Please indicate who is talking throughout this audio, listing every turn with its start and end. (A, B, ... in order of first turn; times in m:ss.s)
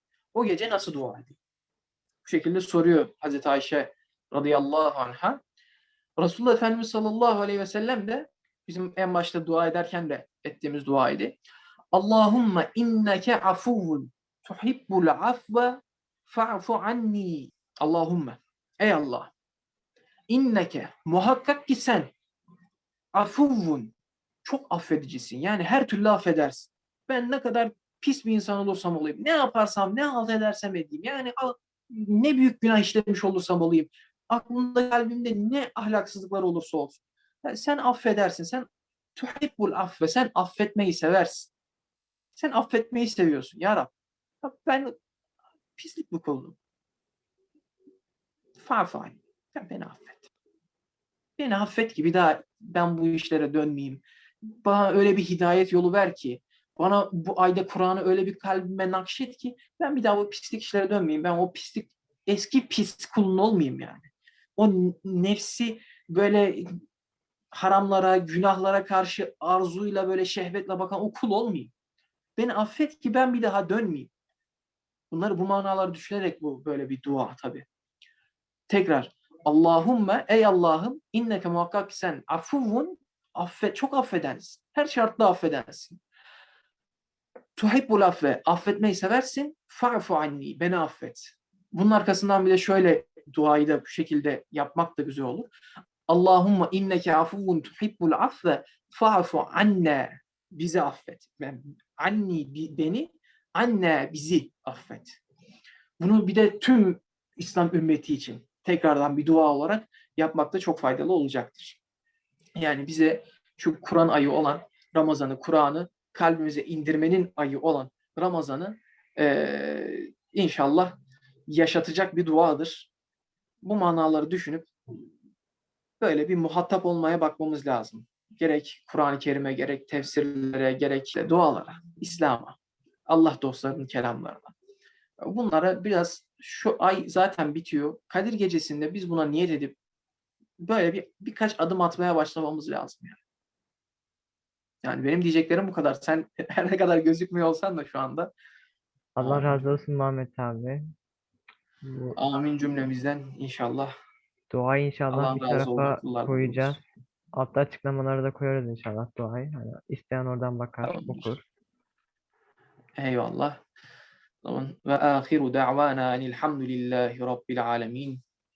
0:00.3-0:01.4 A
0:02.2-0:05.4 A
0:06.2-0:11.4 A
0:11.9-0:19.3 A
0:20.3-0:22.1 A
0:23.1-0:41.5 A
0:42.4-0:43.9 A
0:44.4-0:45.0 A
0:45.8-0:46.6 A
0:48.6-0:50.3 A
0:51.4-0:54.0 A
0:54.6-1:06.8 A
1:07.5-1:11.7 A
1:12.4-1:14.1 A
1:15.1-1:17.7 A
1:18.7-1:26.0 A
1:27.6-1:35.5 A
1:36.1-1:45.2 A
1:46.0-1:51.8 A
1:52.6-2:01.0 A
2:01.5-2:02.9 A
2:03.6-2:04.7 A
2:06.0-2:14.5 A
2:15.2-2:19.8 A
2:20.6-2:23.2 A
2:24.8-2:28.3 A
2:29.2-2:30.9 B
2:29.2-2:29.7 A
2:31.8-2:32.2 B
2:32.2-2:33.9 A
2:34.5-2:36.8 B
2:35.1-2:36.8 A
2:37.4-2:41.4 B
2:40.8-2:41.3 A
2:43.0-2:43.6 A
2:44.4-2:48.2 A